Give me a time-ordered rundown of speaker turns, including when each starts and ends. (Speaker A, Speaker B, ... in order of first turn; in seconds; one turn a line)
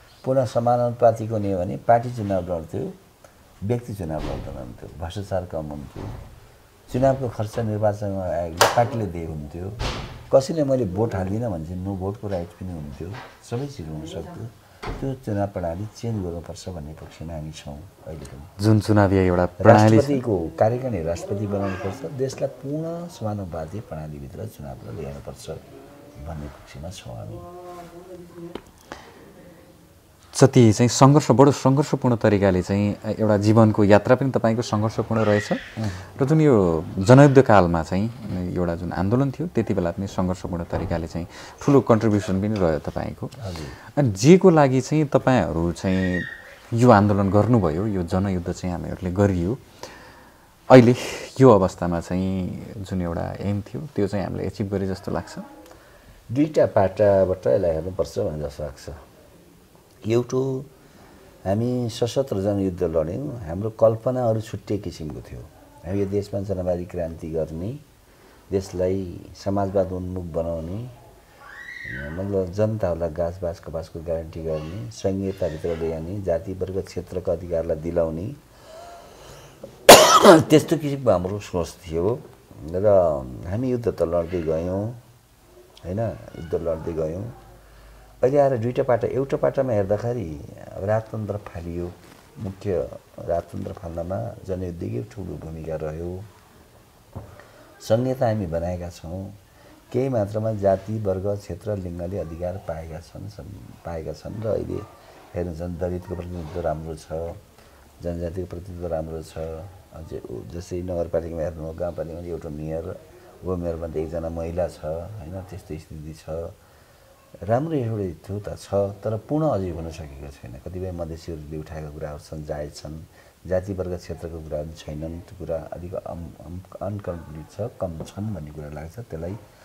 Speaker A: 0.2-3.0
Speaker A: 3.6-6.2
Speaker A: 6.9-18.5
Speaker B: 18.6-20.2
Speaker A: 19.6-25.6
Speaker A: 26.2-27.5
Speaker B: 30.3-43.3
Speaker A: 35.8-36.1
Speaker A: 43.4-43.8
Speaker B: 43.9-50.0
Speaker B: 50.7-55.5
Speaker A: 56.3-59.0
Speaker A: 60.0-60.7
Speaker A: 61.5-67.8
Speaker A: 68.5-71.0
Speaker A: 71.8-78.4
Speaker A: 79.9-85.0
Speaker A: 85.8-87.3
Speaker A: 88.2-96.3
Speaker A: 97.8-99.4
Speaker A: 99.9-107.4
Speaker A: 108.0-116.5
Speaker A: 117.5-129.4